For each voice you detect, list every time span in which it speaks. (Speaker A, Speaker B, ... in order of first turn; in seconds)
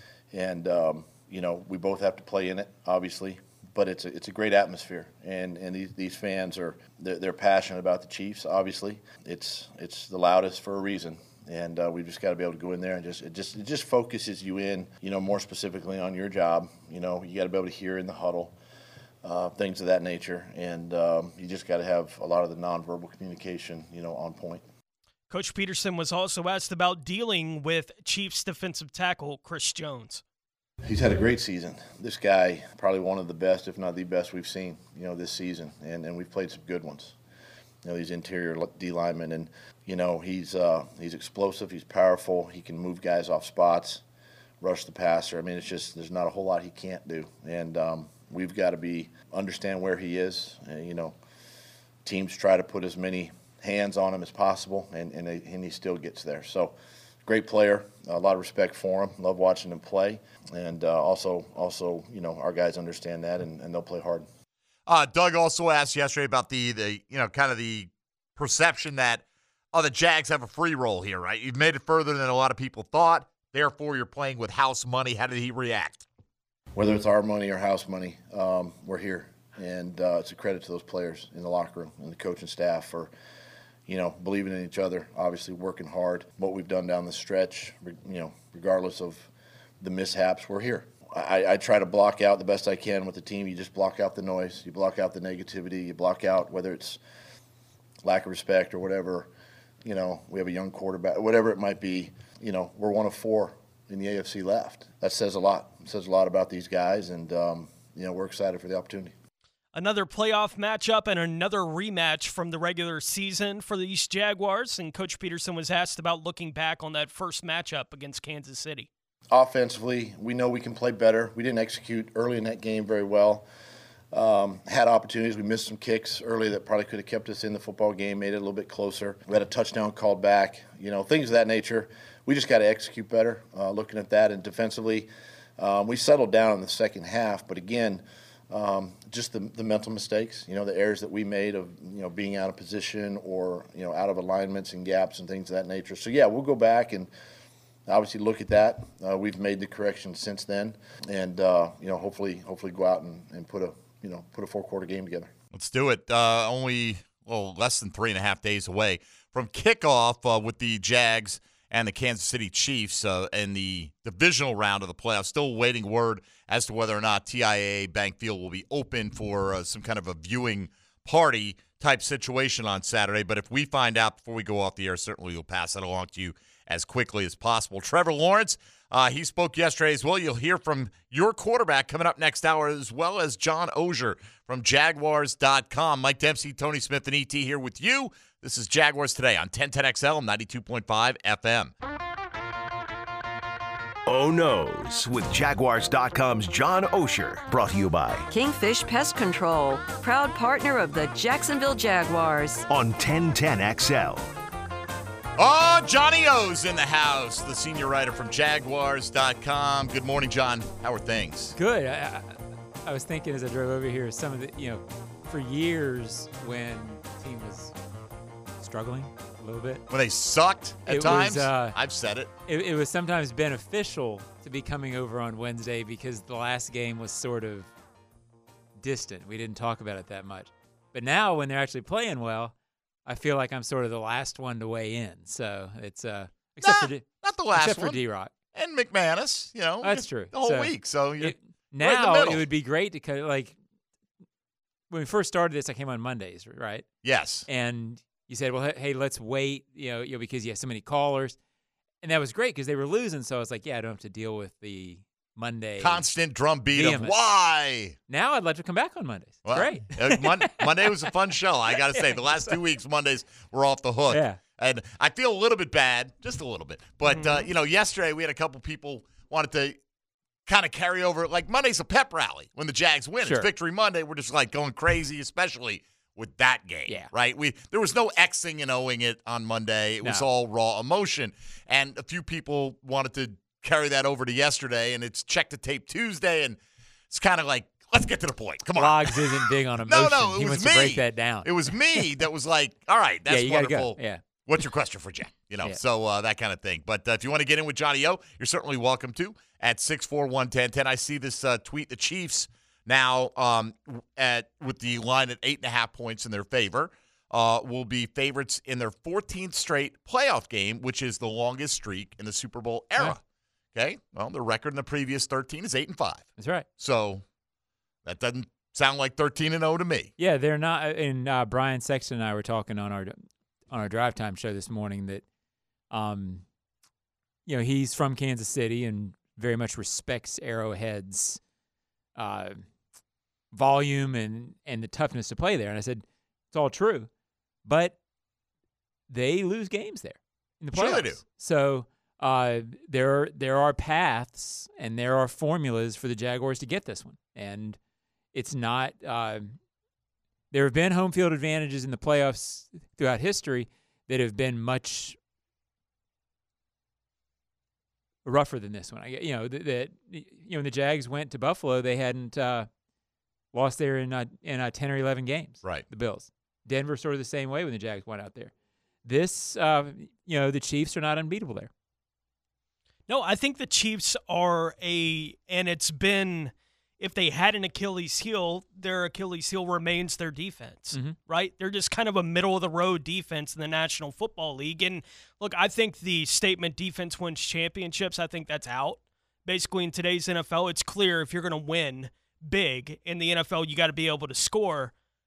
Speaker A: 0.3-18.5, 19.2-24.6, 30.8-37.1, 37.8-44.0, 44.6-51.1, 52.0-64.2, 76.7-83.1, 83.9-89.3, 89.8-97.0, 98.0-99.3, 99.8-109.1, 119.3-123.4, 124.1-147.1, 147.9-155.3
Speaker B: 25.3-30.2, 109.7-118.9, 267.1-267.4, 373.1-394.9
Speaker C: 64.9-76.0, 155.5-191.7, 205.4-211.6, 219.9-222.3, 236.6-238.0, 238.5-242.4, 247.0-247.5, 255.8-257.9, 259.4-269.8, 270.4-286.6, 287.1-313.2, 313.7-317.2, 318.0-320.1, 340.7-341.2, 365.6-365.9
Speaker D: 194.1-198.3, 202.7-204.3
Speaker E: 198.3-202.7
Speaker F: 211.6-217.7, 218.6-219.8, 220.8-221.8, 222.5-227.7, 228.8-232.5, 233.1-238.3, 239.8-243.6, 244.9-246.9, 247.5-251.4, 252.0-256.1, 256.7-257.1, 258.1-261.1, 261.7-262.6, 264.1-264.4, 273.2-273.5, 288.7-292.0, 293.3-294.2, 316.4-316.7, 320.2-325.2, 325.9-326.4, 327.4-331.4, 332.1-332.6, 333.5-337.1, 337.6-338.0, 339.1-347.8, 348.3-349.6, 350.5-355.2, 358.2-362.7, 363.5-368.5, 369.0-371.7, 380.9-381.2